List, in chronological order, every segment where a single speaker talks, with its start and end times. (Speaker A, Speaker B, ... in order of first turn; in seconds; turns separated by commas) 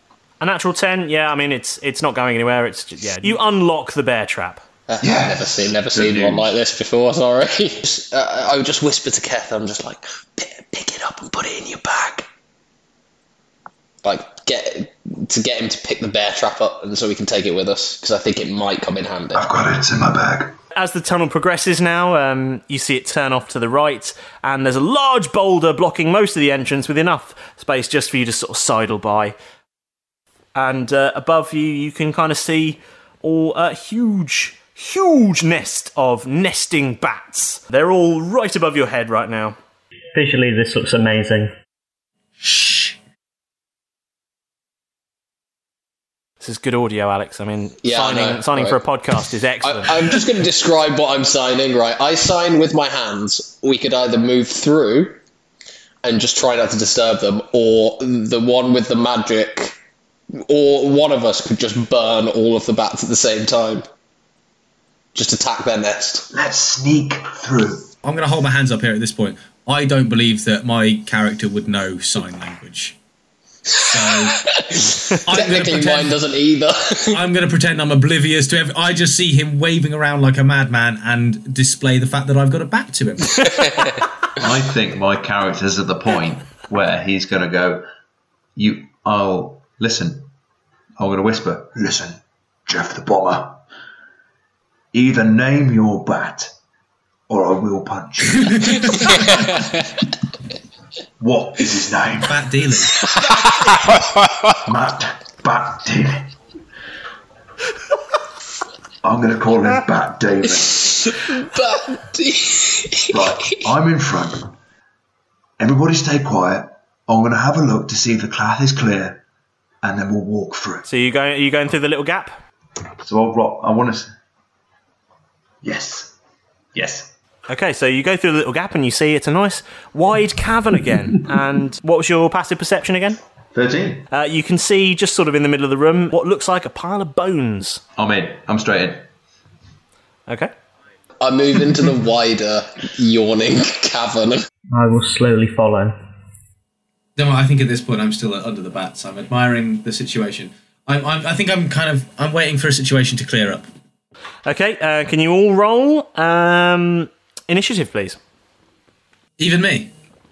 Speaker A: 0.4-4.6, Speaker B: 4.9-12.3, Speaker C: 5.0-6.5, Speaker B: 14.0-19.5, Speaker C: 19.3-20.5, Speaker A: 20.8-29.4, Speaker A: 30.6-39.6, Speaker D: 40.1-41.5, Speaker E: 42.4-42.9, Speaker A: 46.4-50.1, Speaker B: 47.8-48.8, Speaker B: 49.6-55.2, Speaker B: 56.0-59.8, Speaker B: 60.4-63.8, Speaker B: 65.2-66.3, Speaker C: 66.3-67.9, Speaker E: 68.0-73.0, Speaker B: 73.7-77.2, Speaker E: 73.9-74.4, Speaker E: 75.3-76.2, Speaker E: 77.1-83.8, Speaker B: 83.4-84.1, Speaker C: 84.4-87.8, Speaker C: 88.6-90.3, Speaker C: 91.0-93.6, Speaker C: 94.9-96.5, Speaker C: 97.3-98.9, Speaker E: 98.4-99.4, Speaker B: 99.0-99.9, Speaker C: 101.2-102.4, Speaker E: 102.2-103.0, Speaker B: 103.0-104.6, Speaker C: 104.7-106.3, Speaker C: 109.0-111.1, Speaker B: 110.6-113.7, Speaker C: 113.1-114.5, Speaker C: 115.6-119.2, Speaker C: 119.8-120.8, Speaker A: 120.9-122.4, Speaker C: 123.0-124.1, Speaker C: 125.6-126.1, Speaker C: 126.8-127.1, Speaker A: 127.5-133.2, Speaker C: 133.5-134.1, Speaker A: 134.1-137.8, Speaker C: 138.0-139.1, Speaker B: 141.2-144.5, Speaker D: 144.7-146.0, Speaker E: 147.2-153.7, Speaker A: 154.4-158.2, Speaker E: 159.4-159.9